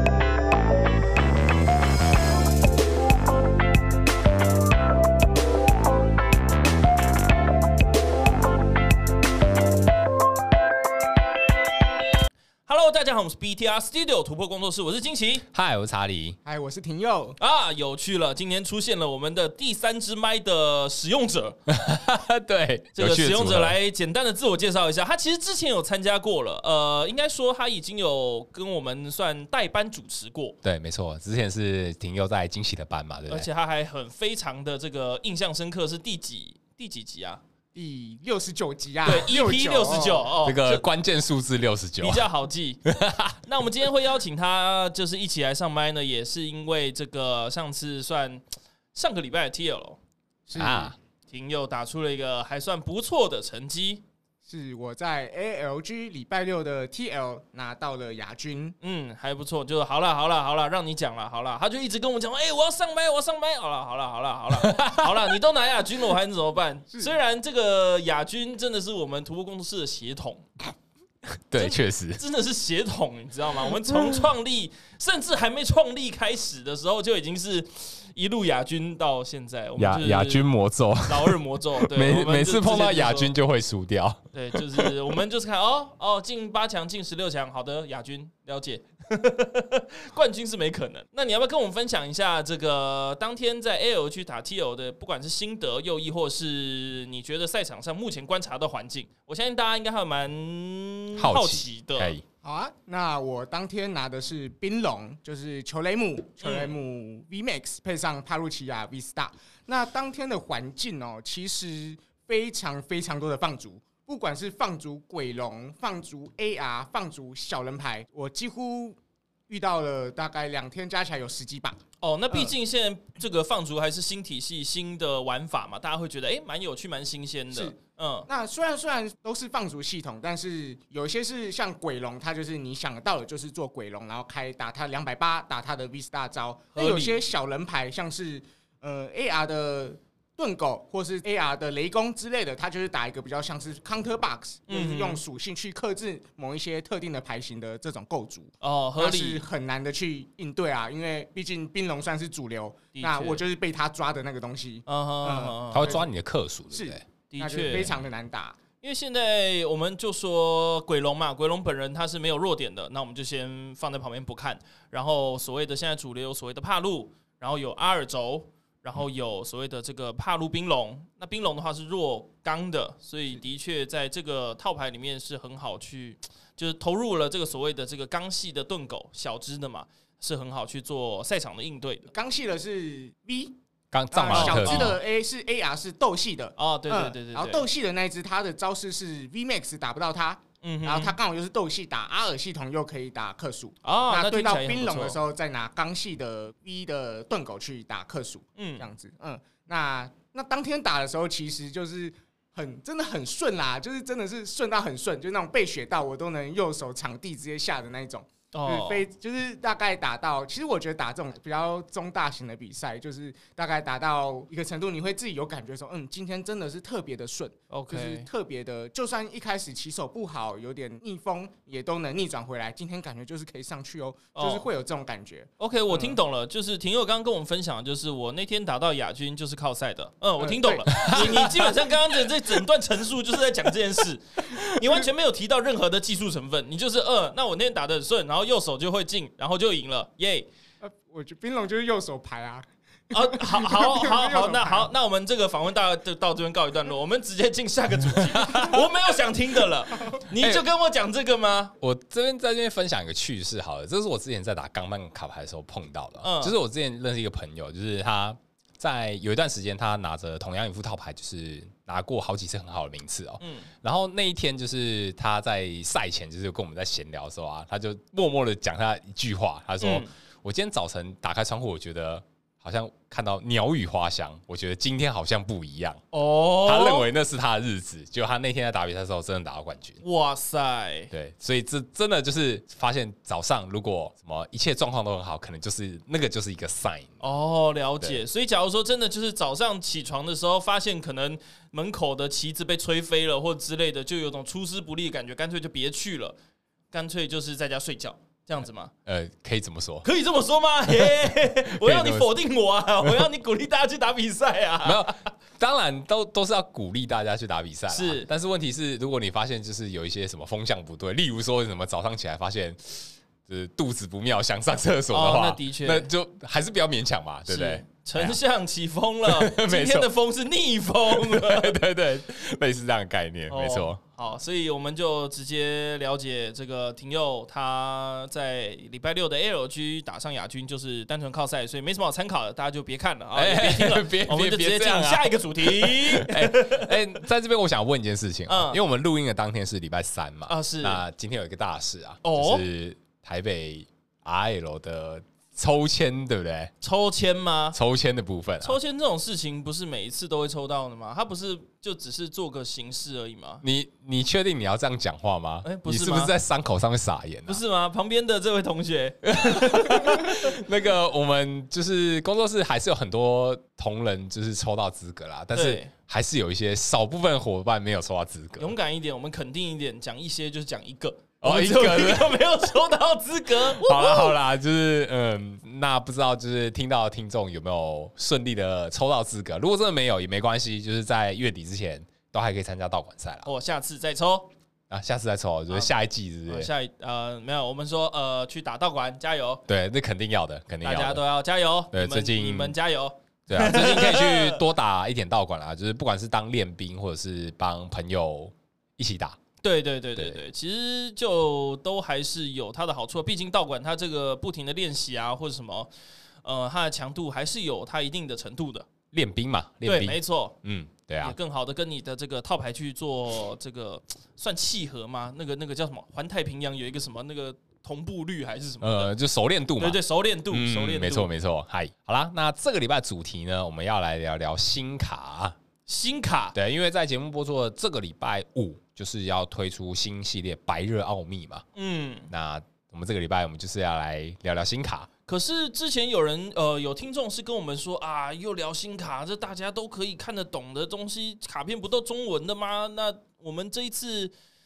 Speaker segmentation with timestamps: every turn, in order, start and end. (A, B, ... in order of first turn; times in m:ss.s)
0:12.6-0:15.4 A
0:15.5-0:16.4 B
0:16.4-0:17.4 C
0:17.4-0:21.6 A
0:21.7-0:23.8 B
0:22.9-0:30.6 A
0:30.6-0:33.5 B
0:33.3-0:37.4 A
0:37.7-0:40.3 C
0:39.0-0:40.8 A
0:40.4-0:42.3 B
0:42.0-0:42.9 A
0:42.8-0:43.5 B
0:43.4-0:48.4 A
0:48.9-0:50.0 A
0:50.5-0:50.9 C
0:50.5-0:51.0 B
0:51.3-0:54.0 A
0:54.4-0:58.7 C
0:58.8-1:10.4 A
1:04.6-1:05.3 B
1:11.5-1:12.2 B
1:11.6-1:20.5 A
1:13.9-1:14.2 B
1:19.8-1:24.9 B
1:21.0-1:23.3 A
1:24.3-1:42.2 A
1:41.2-1:42.2 B
1:42.4-1:59.0 C
1:46.4-1:46.7 A
1:59.5-2:01.8 C
2:02.0-2:08.3 A
2:08.3-2:36.1 C
2:16.7-2:17.2 A
2:24.7-2:25.2 A
2:28.6-2:29.4 A
2:32.9-2:33.4 A
2:34.9-2:36.0 A
2:35.7-2:37.0 B
2:36.7-2:38.6 C
2:37.3-2:37.9 A
2:37.7-2:37.9 B
2:38.8-3:02.1 A
3:02.1-3:03.5 C
3:03.9-3:05.0 B
3:04.1-3:46.2 C
3:04.3-3:05.0 A
3:06.6-3:07.6 A
3:10.6-3:11.2 A
3:13.8-3:15.2 A
3:18.6-3:18.8 A
3:28.5-3:29.0 A
3:37.7-3:38.3 A
3:44.4-3:44.7 A
3:45.6-4:00.5 A
3:50.4-3:51.8 C
3:50.9-3:51.8 B
4:00.8-4:04.9 C
4:03.1-4:11.7 A
4:08.1-4:08.9 B
4:10.4-4:10.6 B
4:11.8-4:40.0 B
4:16.2-4:16.5 A
4:23.4-4:23.7 A
4:29.8-4:30.1 A
4:36.1-4:37.1 A
4:40.0-4:41.1 A
4:41.1-4:47.2 B
4:47.2-4:56.4 A
4:56.9-4:58.9 A
4:59.0-5:00.0 B
5:00.0-5:05.2 A
5:00.9-5:02.3 B
5:04.8-5:18.4 B
5:07.9-5:08.3 A
5:15.1-5:16.1 A
5:17.5-5:21.8 A
5:19.2-5:20.1 B
5:21.1-5:24.0 B
5:23.5-5:37.0 A
5:33.4-5:46.7 B
5:38.5-5:38.8 A
5:40.5-5:41.0 A
5:42.2-5:42.6 A
5:46.8-5:47.8 A
5:47.7-5:48.8 B
5:48.6-5:53.6 A
5:53.6-5:57.6 B
5:55.6-5:56.3 A
5:57.5-6:00.6 A
5:59.2-6:08.8 B
6:05.5-6:05.9 A
6:08.6-6:14.4 A
6:11.4-6:12.4 B
6:13.6-6:23.5 B
6:23.4-6:24.5 A
6:24.9-6:26.7 B
6:26.5-6:29.6 A
6:29.7-6:31.2 B
6:30.8-6:34.6 A
6:31.9-6:32.8 B
6:33.5-6:39.4 B
6:39.6-6:45.9 A
6:40.2-6:40.4 B
6:46.4-6:48.8 A
6:49.1-6:51.4 B
6:49.8-6:50.6 A
6:51.2-6:59.1 A
6:58.8-7:05.6 B
6:59.8-7:01.3 A
7:05.9-7:06.5 A
7:06.5-7:11.6 B
7:11.7-7:12.3 A
7:12.3-7:15.1 B
7:15.3-7:24.3 A